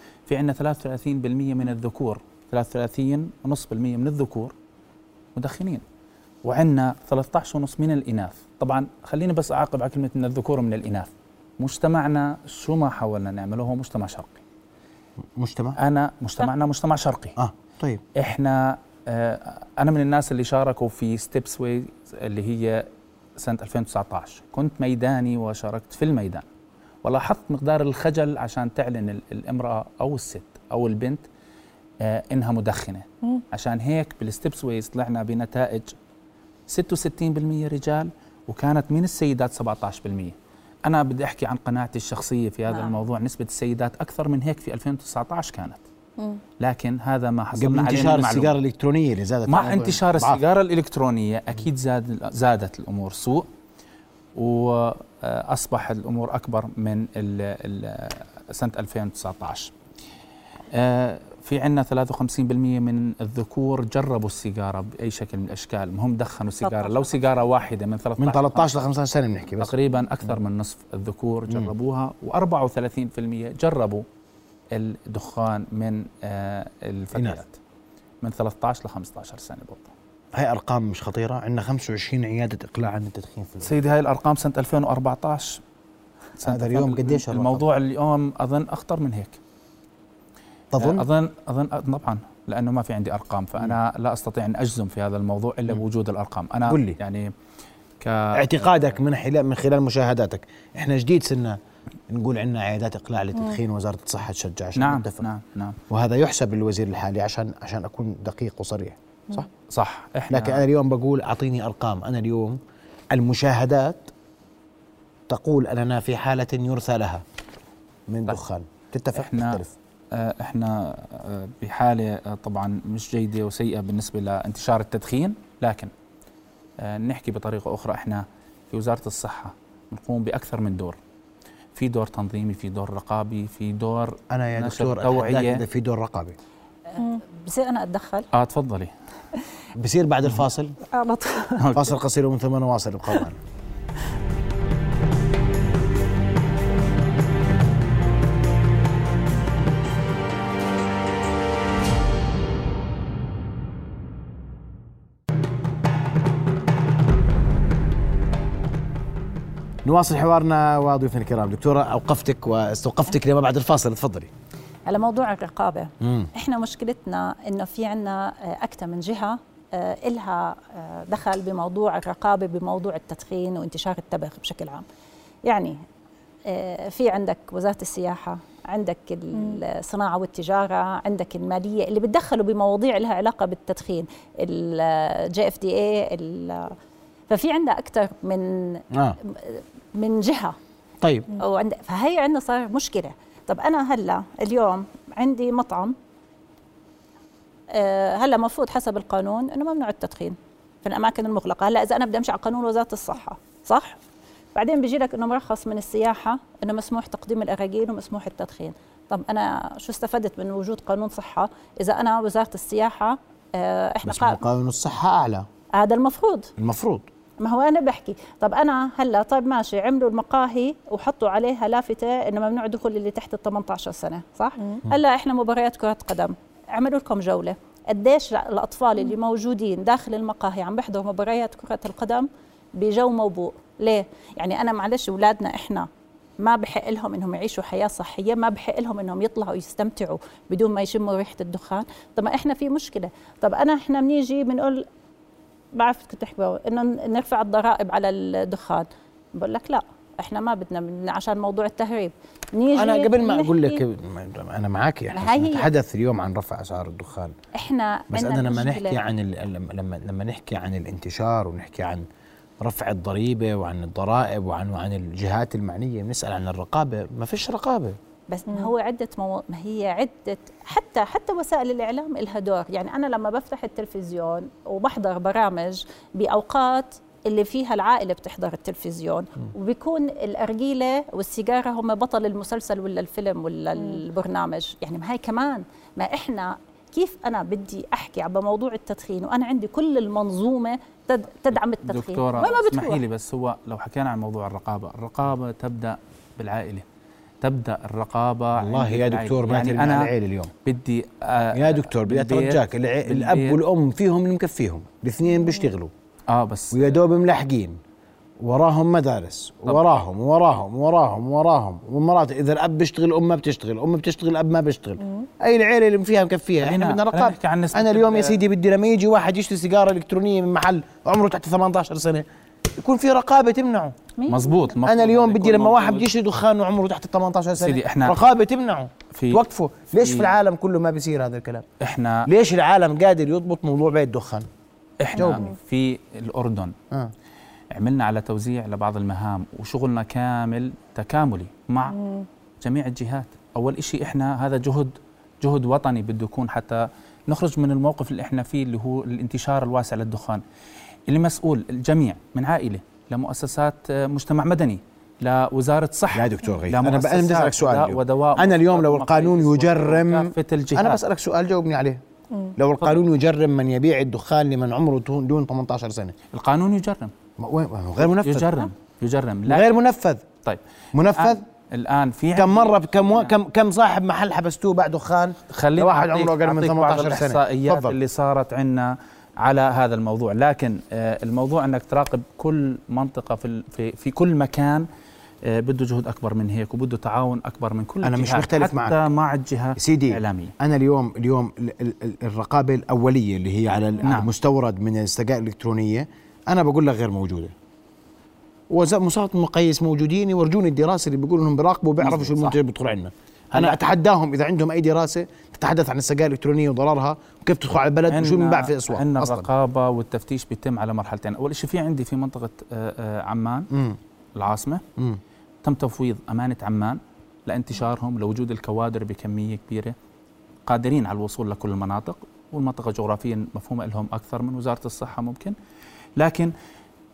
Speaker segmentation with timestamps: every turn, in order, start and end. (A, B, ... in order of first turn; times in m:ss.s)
0:00.3-0:04.6 A
0:05.4-0:05.8 A
0:06.4-0:14.4 A
0:15.4-0:15.8 B
0:15.8-0:17.4 A
0:17.4-0:18.0 B
0:18.2-0:26.4 A
0:27.0-0:31.2 A
0:32.0-0:35.9 A
0:36.7-0:45.8 A
0:42.7-0:43.0 C
0:46.6-0:48.6 A
0:47.6-0:50.4 B
0:49.5-0:53.5 A
0:54.4-0:59.7 A
1:00.7-1:08.7 A
1:06.6-1:07.2 C
1:08.2-1:10.4 B
1:09.6-1:14.0 A
1:14.7-1:17.6 A
1:17.1-1:17.4 B
1:18.2-1:19.9 A
1:20.3-1:23.7 B
1:23.6-1:25.6 A
1:26.4-1:27.6 B
1:26.4-1:29.4 A
1:30.7-1:31.0 B
1:30.8-1:37.3 A
1:36.7-1:37.0 B
1:38.0-1:38.5 A
1:38.4-1:41.6 B
1:42.1-1:45.3 B
1:44.8-1:45.8 A
1:45.9-1:49.5 B
1:49.7-1:50.6 A
1:50.3-1:52.6 B
1:53.1-1:54.1 B
1:55.3-1:57.2 B
1:58.1-1:59.7 B
1:59.1-1:59.6 A
2:00.1-2:05.9 A
2:06.8-2:11.0 A
2:11.8-2:15.6 A
2:14.3-2:16.4 B
2:16.9-2:18.3 C
2:18.3-2:18.9 A
2:19.8-2:20.8 B
2:20.9-2:21.6 C
2:21.6-2:21.9 A
2:21.7-2:23.4 B
2:39.8-2:44.3 B
2:44.9-2:54.8 C
2:46.0-2:46.3 B
2:55.4-2:55.8 C
2:56.4-3:06.8 C
3:07.3-3:10.6 C
3:11.4-3:16.0 C
3:17.7-3:24.0 C
3:24.6-3:34.4 C
3:34.0-3:35.5 B
3:35.8-3:36.5 C
3:36.6-3:37.1 B
3:37.4-3:55.9 C
3:56.4-4:04.9 C
4:05.7-4:13.8 C
4:12.7-4:17.4 B
4:15.1-4:15.7 C
4:17.5-4:19.0 C
4:18.1-4:22.1 B
4:22.6-4:28.0 B
4:28.3-4:53.0 C
4:51.8-4:56.8 A
4:57.4-5:00.1 A
4:58.6-5:00.5 B
5:00.6-5:03.6 A
5:01.6-5:05.9 B
5:06.3-5:07.0 A
5:06.7-5:07.8 B
5:08.4-5:22.2 B
5:16.6-5:18.4 A
5:22.8-5:23.9 B
5:24.2-5:24.6 C
5:24.3-5:26.1 A
5:24.9-5:31.7 B
5:27.6-5:28.2 A
5:29.1-5:29.4 A
5:30.0-5:30.3 A
5:31.8-5:32.3 A
5:32.3-5:34.5 B
5:35.0-5:36.8 A
5:35.2-5:35.5 B
5:37.7-5:42.0 A
5:42.6-5:50.4 A
5:51.1-6:01.0 A
5:56.1-6:02.0 B
6:02.6-6:06.2 B
6:06.3-6:07.1 A
6:07.4-6:08.7 B
6:08.0-6:09.7 A
6:09.5-6:10.2 B
6:10.4-6:13.4 A
6:10.9-6:11.4 B
6:12.4-6:18.0 B
6:15.5-6:24.9 A
6:25.5-6:30.5 A
6:28.0-6:29.0 B
6:29.8-6:37.5 B
6:34.0-6:34.3 A
6:38.7-6:49.5 B
6:42.0-6:42.6 A
6:43.5-6:43.8 A
6:48.1-6:53.7 A
6:53.7-6:54.0 B
6:54.4-6:54.8 A
6:55.6-7:00.0 A
7:00.7-7:05.6 A
7:06.2-7:06.5 A